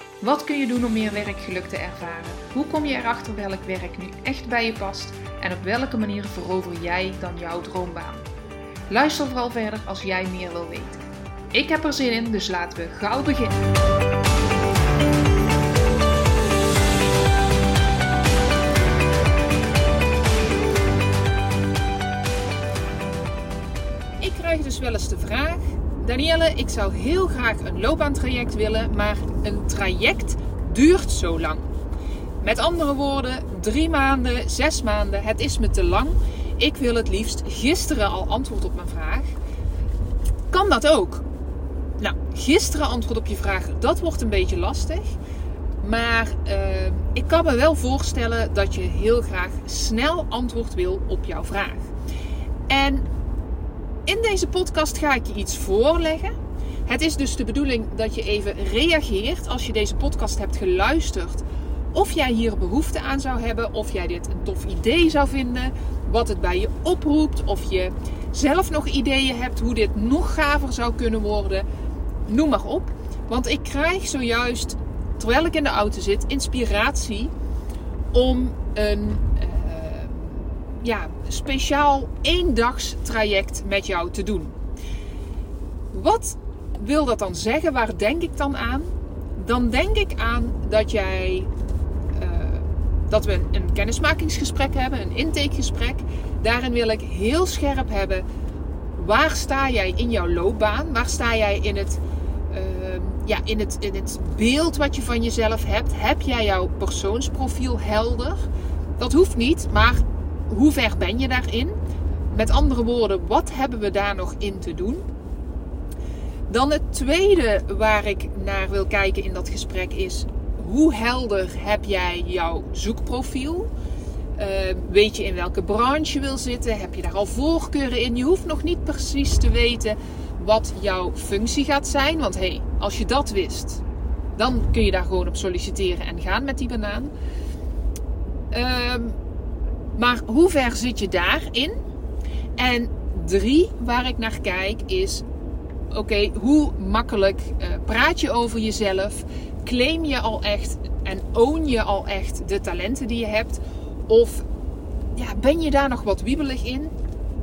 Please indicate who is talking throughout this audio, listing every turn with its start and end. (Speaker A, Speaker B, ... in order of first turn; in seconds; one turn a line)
Speaker A: 0.2-8.2
Speaker A: 8.9-11.0
Speaker A: 11.5-13.6
Speaker A: 24.2-31.6
Speaker A: 32.4-39.3
Speaker A: 40.5-41.2
Speaker A: 42.0-45.1
Speaker A: 45.8-51.9
Speaker A: 52.7-53.0
Speaker A: 54.0-56.3
Speaker A: 56.9-71.6
Speaker A: 72.3-77.3
Speaker A: 78.1-84.5
Speaker A: 85.9-91.5
Speaker A: 92.1-98.2
Speaker A: 98.9-108.5
Speaker A: 109.0-111.7
Speaker A: 112.3-115.0
Speaker A: 116.5-123.7
Speaker A: 124.4-133.8
Speaker A: 134.3-137.1
Speaker A: 138.5-139.2
Speaker A: 139.9-141.8
Speaker A: 142.6-145.2
Speaker A: 145.9-154.4
Speaker A: 155.2-156.9